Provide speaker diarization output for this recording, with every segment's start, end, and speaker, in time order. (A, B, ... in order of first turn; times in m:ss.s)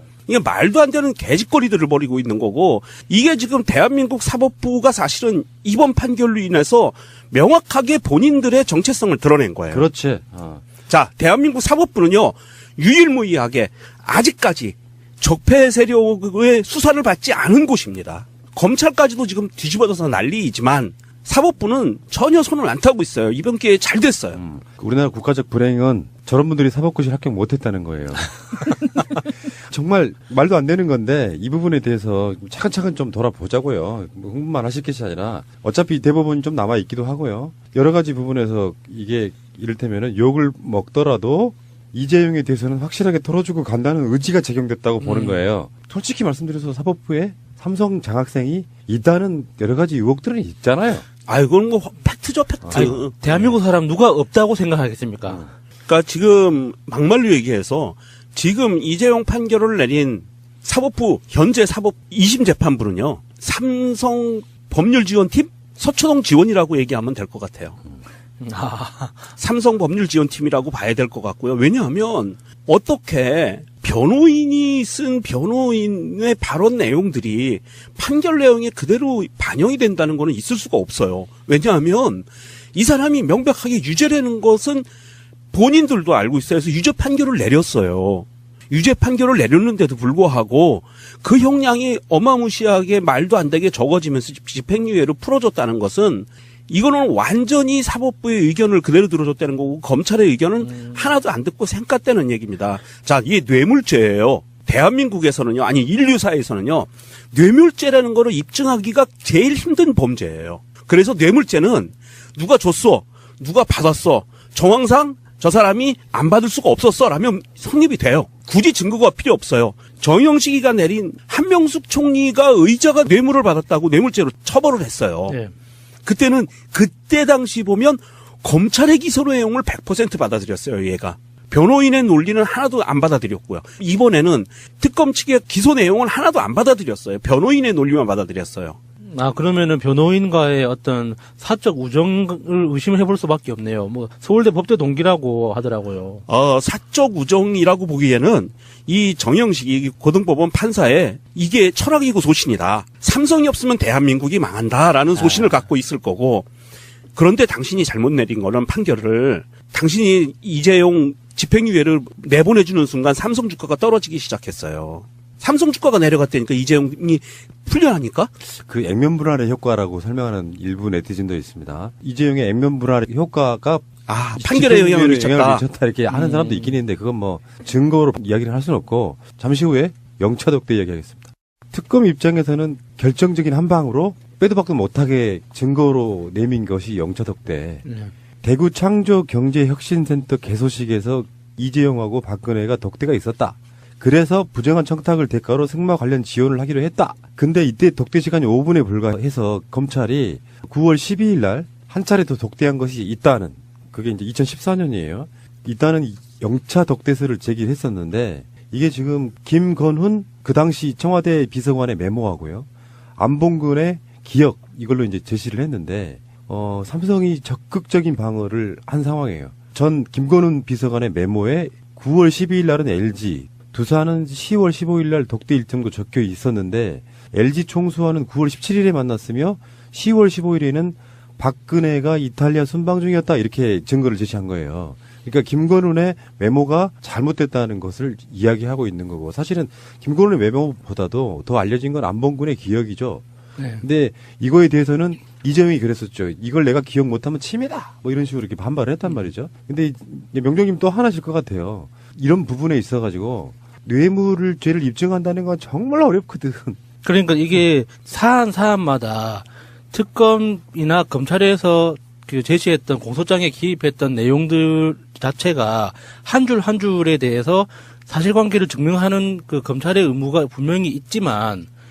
0:00.3-0:09.8 A
0:09.7-0:10.6 B
0:10.9-0:24.4 A
0:24.3-0:51.0 B
0:45.0-0:45.4 C
0:51.3-0:53.2 A
0:52.6-0:53.5 B
0:52.7-0:55.4 C
0:55.9-1:07.8 A
1:08.4-1:09.2 C
1:09.4-1:24.8 A
1:25.5-2:05.4 A
1:40.7-1:41.0 C
2:06.0-2:18.8 A
2:19.1-2:26.2 C
2:26.3-2:36.5 A
2:35.2-2:35.6 C
2:37.1-2:48.3 A
2:48.5-3:07.8 B
2:54.1-2:55.6 A
2:56.1-2:56.8 C
3:07.8-3:08.1 C
3:08.4-4:03.2 B
4:03.6-4:03.8 C
4:03.8-4:16.8 B
4:17.0-4:31.7 C